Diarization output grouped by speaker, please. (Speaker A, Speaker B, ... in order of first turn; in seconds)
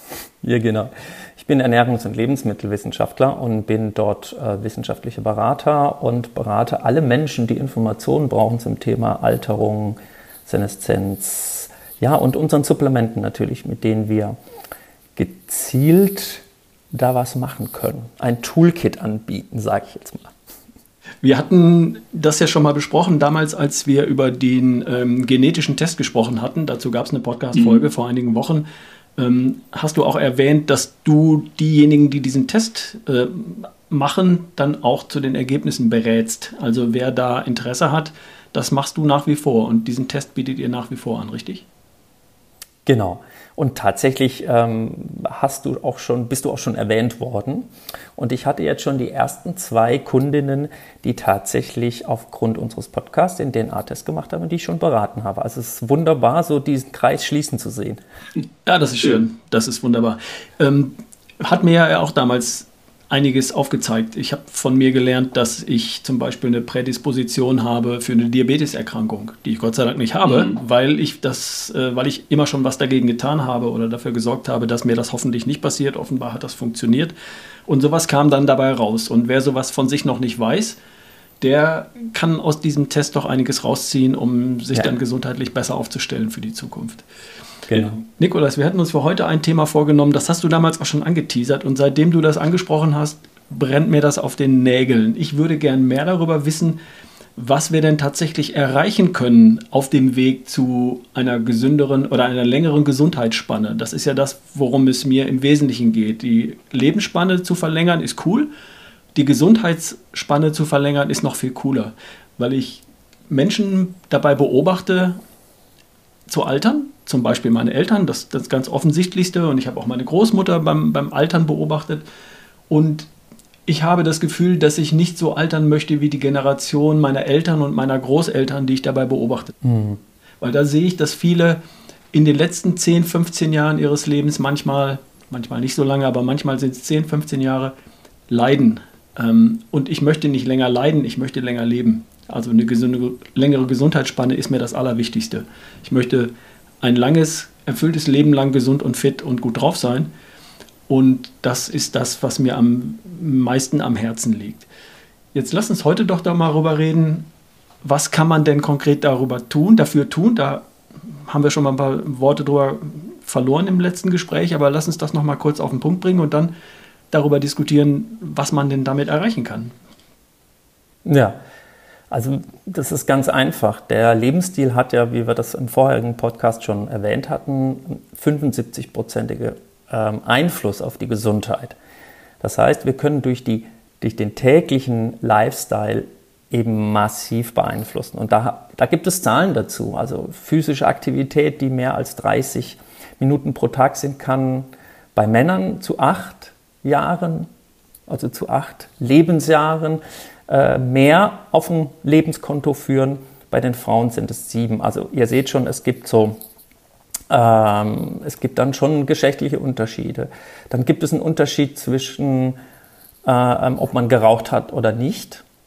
Speaker A: 0.4-14.4, 15.2-20.3, 42.9-58.0, 87.7-88.0, 129.6-130.0, 171.0-171.3, 172.1-181.8, 182.4-197.5, 198.1-206.4, 207.3-212.6, 213.2-215.4
Speaker B: 21.2-28.6, 29.2-41.6, 58.6-77.1, 77.7-80.8, 81.4-87.0, 87.7-96.8, 97.3-108.5, 109.1-115.2, 116.3-122.0, 122.7-123.1, 123.7-129.5, 130.4-131.6, 132.1-137.7, 138.3-146.3, 146.8-150.1, 150.9-154.7, 155.3-157.2, 157.8-160.6, 161.2-166.5, 167.1-169.7